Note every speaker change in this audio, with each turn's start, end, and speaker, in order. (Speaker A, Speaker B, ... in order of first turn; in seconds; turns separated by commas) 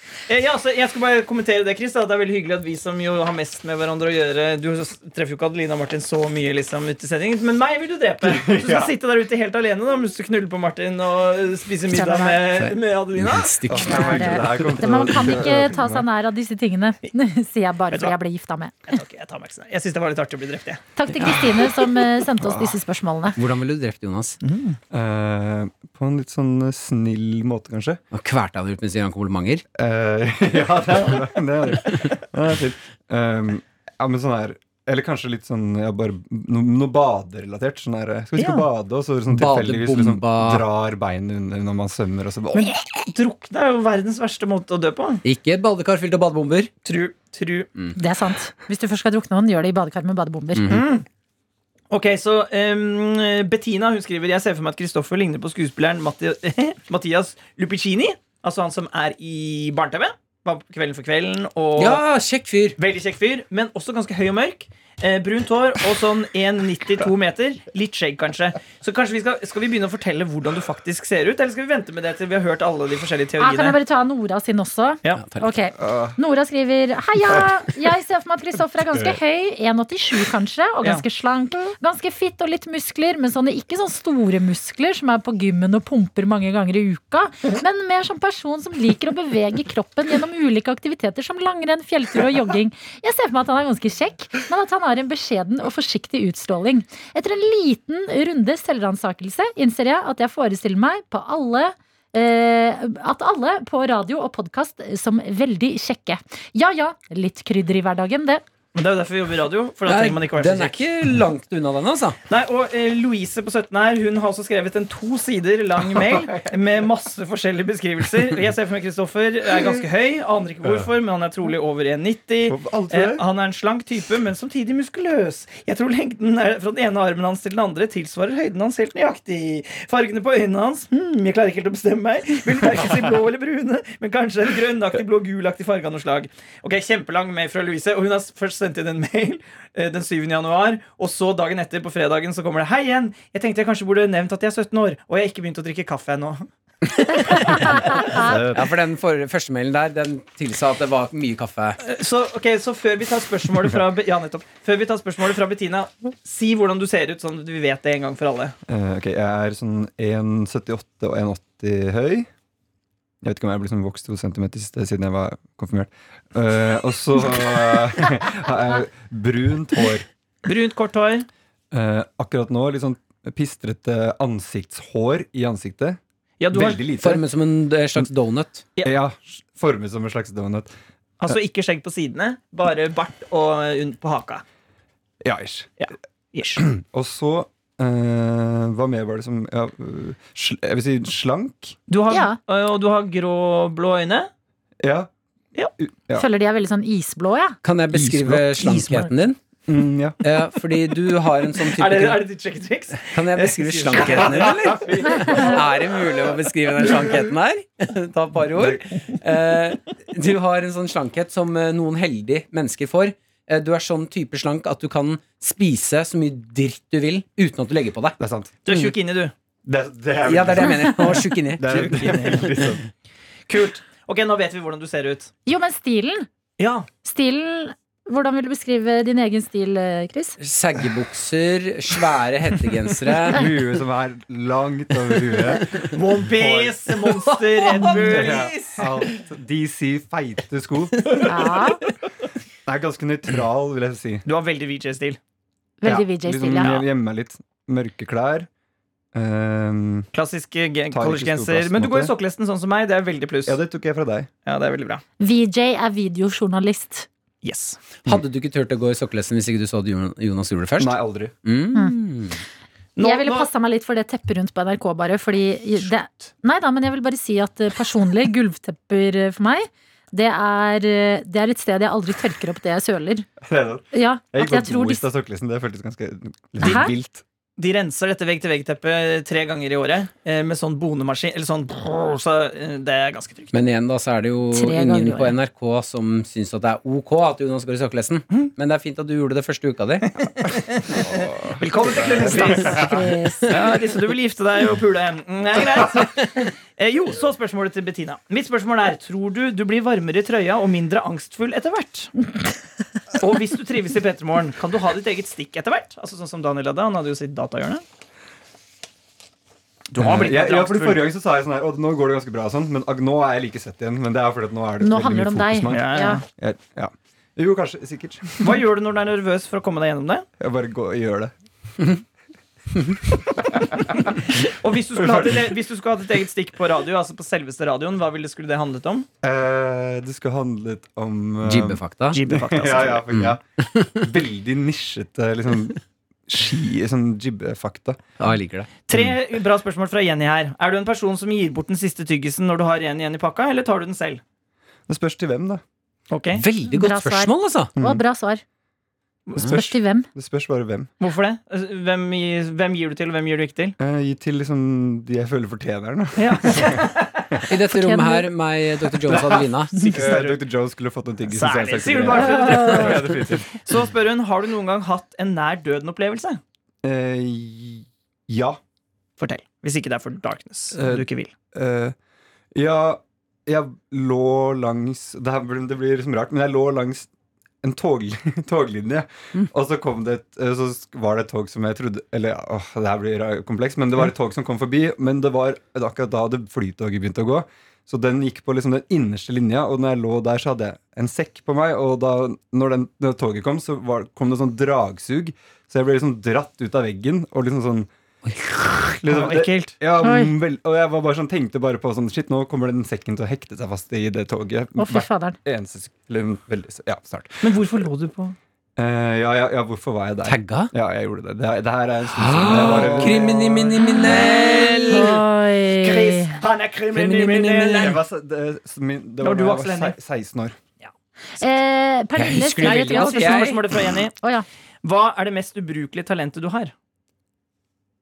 Speaker A: 0.3-13.6, Speaker B: 8.2-8.9, Speaker C: 11.9-12.4, Speaker D: 12.5-14.7, Speaker B: 13.7-16.1, Speaker C: 13.7-18.7, Speaker A: 18.9-20.8, Speaker C: 20.9-23.4, Speaker B: 22.4-22.7, Speaker D: 23.4-24.4, Speaker A: 24.4-24.8, Speaker B: 24.9-28.0, Speaker D: 28.1-29.6, Speaker B: 29.7-42.7, Speaker A: 38.4-38.6, Speaker D: 39.3-40.6, Speaker A: 42.5-45.2, Speaker D: 45.2-46.7, Speaker A: 46.8-47.7, Speaker C: 47.9-50.8, Speaker D: 50.5-50.8, Speaker A: 50.7-51.0, Speaker A: 51.9-62.0, Speaker D: 61.8-62.8, Speaker A: 62.8-73.8, Speaker C: 73.4-108.4, Speaker D: 75.2-75.5, Speaker B: 75.8-76.2, Speaker A: 108.7-110.8, Speaker D: 109.8-112.2, Speaker A: 112.3-148.3, Speaker B: 122.5-123.2, Speaker B: 147.9-148.7, Speaker D: 148.5-151.8, Speaker A: 151.8-158.5, Speaker B: 158.7-162.3, Speaker B: 163.2-170.1, Speaker A: 170.4-171.3, Speaker B: 171.7-176.0, Speaker A: 176.4-176.8, Speaker B: 176.5-177.2, Speaker D: 177.0-178.6, Speaker B: 178.8-180.7, Speaker A: 181.2-184.4, Speaker B: 185.2-185.7, Speaker A: 185.8-186.6, Speaker B: 186.6-191.8, Speaker A: 191.9-194.3, Speaker C: 192.1-192.4, Speaker B: 194.8-195.1, Speaker B: 195.8-196.3, Speaker C: 196.1-197.6, Speaker D: 197.6-199.4, Speaker B: 197.9-198.6, Speaker C: 198.6-199.1, Speaker B: 199.7-200.2, Speaker D: 200.2-202.3, Speaker A: 201.7-205.6, Speaker D: 203.0-218.2, Speaker B: 203.9-205.8, Speaker B: 208.6-208.8, Speaker B: 218.2-218.5, Speaker A: 218.6-219.3, Speaker D: 218.7-218.9, Speaker B: 219.7-222.8, Speaker D: 220.2-222.1, Speaker A: 221.7-222.7, Speaker A: 223.5-225.3, Speaker C: 225.4-226.2, Speaker A: 226.6-226.8, Speaker C: 227.0-230.4, Speaker D: 230.4-233.4, Speaker B: 233.2-236.8, Speaker A: 235.8-238.8, Speaker D: 236.9-239.1, Speaker B: 237.8-241.3, Speaker C: 241.2-241.8, Speaker B: 242.7-244.2, Speaker A: 244.2-245.2, Speaker C: 245.8-246.8, Speaker B: 245.8-248.5, Speaker B: 249.1-250.1, Speaker A: 250.1-253.6, Speaker B: 250.9-252.1, Speaker B: 253.4-254.3, Speaker A: 254.4-255.0, Speaker C: 255.2-257.1, Speaker A: 257.4-257.8, Speaker D: 258.0-262.4, Speaker B: 260.8-261.3, Speaker A: 262.9-263.5, Speaker C: 263.0-273.3, Speaker B: 273.4-277.2, Speaker C: 273.9-275.1, Speaker C: 276.6-276.9, Speaker A: 277.6-283.5, Speaker D: 283.5-290.1, Speaker C: 284.5-285.3, Speaker A: 290.2-302.2, Speaker B: 291.0-293.0, Speaker C: 292.5-293.6, Speaker A: 303.1-307.8, Speaker A: 309.9-311.1, Speaker B: 310.0-318.6, Speaker C: 314.8-316.2, Speaker A: 315.7-316.2, Speaker A: 318.4-320.3, Speaker B: 320.4-321.3, Speaker B: 323.3-324.3, Speaker A: 324.0-329.1, Speaker B: 324.9-325.6, Speaker B: 329.2-338.0, Speaker D: 331.4-332.2, Speaker A: 332.1-333.0, Speaker D: 333.1-334.0, Speaker D: 338.2-338.7, Speaker A: 338.9-344.2, Speaker B: 344.9-345.6, Speaker A: 346.1-346.4, Speaker D: 346.3-347.7, Speaker C: 346.7-348.4, Speaker B: 347.8-348.0, Speaker A: 349.3-349.6, Speaker B: 349.4-350.9, Speaker C: 349.4-350.1, Speaker A: 351.0-353.8, Speaker B: 353.8-357.4, Speaker A: 356.2-357.4, Speaker D: 357.5-360.0, Speaker C: 357.5-358.3, Speaker B: 359.1-359.4, Speaker A: 359.1-360.4, Speaker B: 359.9-363.6, Speaker A: 361.3-366.4, Speaker C: 362.3-362.9, Speaker B: 366.8-368.6, Speaker A: 369.2-371.3, Speaker B: 370.7-371.9, Speaker B: 372.5-377.1, Speaker B: 377.6-397.9, Speaker D: 398.3-398.9, Speaker B: 399.0-407.5, Speaker A: 399.1-399.7, Speaker C: 400.0-400.3, Speaker C: 404.8-405.4, Speaker A: 407.4-408.4, Speaker B: 408.8-413.8, Speaker D: 410.2-410.7, Speaker D: 412.1-415.2, Speaker A: 412.6-413.4, Speaker A: 414.0-418.0, Speaker C: 414.9-416.4, Speaker D: 416.9-418.0, Speaker B: 417.8-420.6, Speaker A: 419.2-419.9, Speaker C: 421.4-423.6, Speaker D: 422.2-423.8, Speaker A: 422.6-424.1, Speaker C: 424.2-424.4, Speaker A: 424.8-426.7